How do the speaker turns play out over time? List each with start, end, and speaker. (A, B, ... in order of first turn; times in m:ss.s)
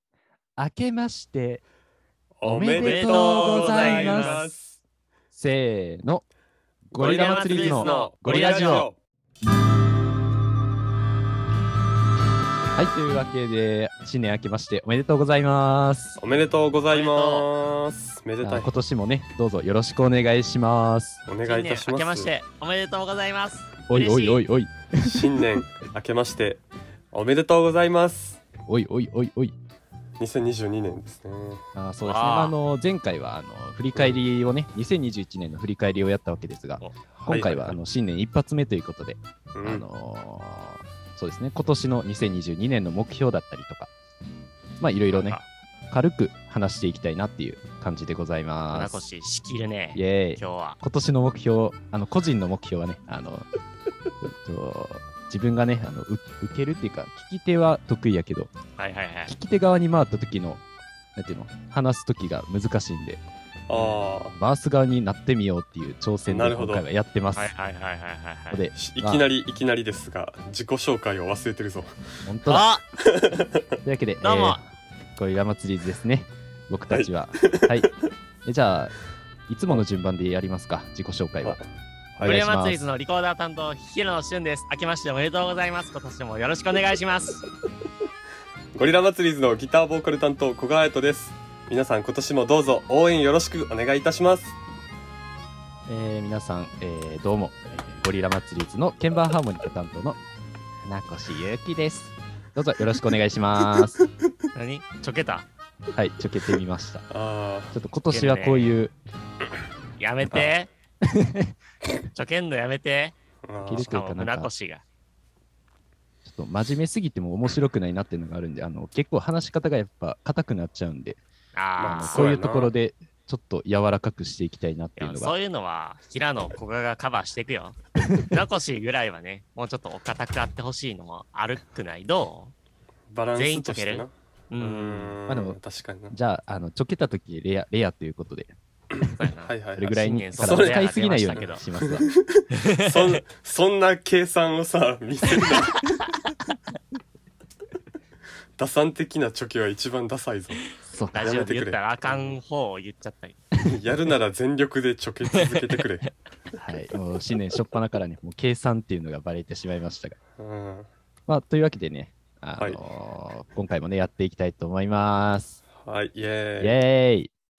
0:00.6-0:01.6 A
0:02.4-0:04.8 B
0:02.4-0:04.4 A
0:02.8-0:04.5 C
0:05.3-0:06.3 A
0:06.9-0:08.9 A
0:07.0-0:09.0 B
0:07.0-0:08.9 C
0:12.8-0:16.2 A
0:16.2-0:18.7 B
0:16.9-0:17.5 C
0:18.4-0:21.2 A
0:21.3-0:22.3 B
0:21.4-0:24.4 C
0:23.9-0:25.4 A
0:25.0-0:28.4 B
0:28.6-0:29.6 A
0:30.2-0:31.7 B
0:31.8-0:43.9 A
0:32.0-0:32.6 C
0:33.9-0:34.2 B
0:37.2-0:37.8 B
0:39.6-0:39.9 B
0:44.8-0:49.0 A
0:45.1-0:45.5 C
0:48.7-0:50.8 C
0:50.0-0:53.5 A
0:54.2-0:58.5 A
0:58.8-0:59.3 C
0:59.3-1:00.6 A
1:01.2-1:03.2 A
1:03.7-1:04.4 B
1:04.3-1:07.5 A
1:06.3-1:06.8 B
1:07.4-1:08.6 C
1:08.5-1:09.2 A
1:08.7-1:11.9 B
1:12.2-1:12.7 A
1:12.5-1:12.8 C
1:13.0-1:13.6 B
1:13.8-1:17.9 A
1:14.2-1:14.6 C
1:16.9-1:17.9 B
1:18.4-1:18.9 A
1:19.5-1:21.6 A
1:21.4-1:22.4 B
1:22.2-1:22.8 A
1:22.2-1:27.4 C
1:28.8-1:34.6 B
1:35.9-1:40.2 A
1:40.8-1:44.0 A
1:43.8-1:44.0 B
1:44.6-1:45.5 C
1:46.0-1:47.1 A
1:47.1-1:47.7 B
1:47.7-1:48.9 A
1:48.1-1:48.8 C
1:50.0-1:50.7 C
1:51.0-1:51.5 A
1:52.1-1:53.2 C
1:53.4-1:54.0 B
1:53.6-1:54.5 A
1:53.7-1:54.8 C
1:56.2-2:01.2 A
2:01.6-2:02.3 C
2:01.8-2:02.7 B
2:01.9-2:05.4 A
2:05.0-2:12.5 C
2:13.1-2:16.2 B
2:13.3-2:15.2 C
2:15.3-2:15.6 A
2:16.1-2:18.5 A
2:19.0-2:25.9 B
2:19.2-2:21.6 C
2:19.8-2:22.1 A
2:22.5-2:23.2 C
2:28.6-2:30.6 B
2:30.8-2:31.2 A
2:31.1-2:33.4 C
2:31.2-2:32.4 B
2:33.6-2:36.1 B
2:36.6-2:40.2 A
2:40.4-2:40.9 B
2:41.3-2:45.6 A
2:45.8-2:46.8 B
2:46.6-2:47.3 A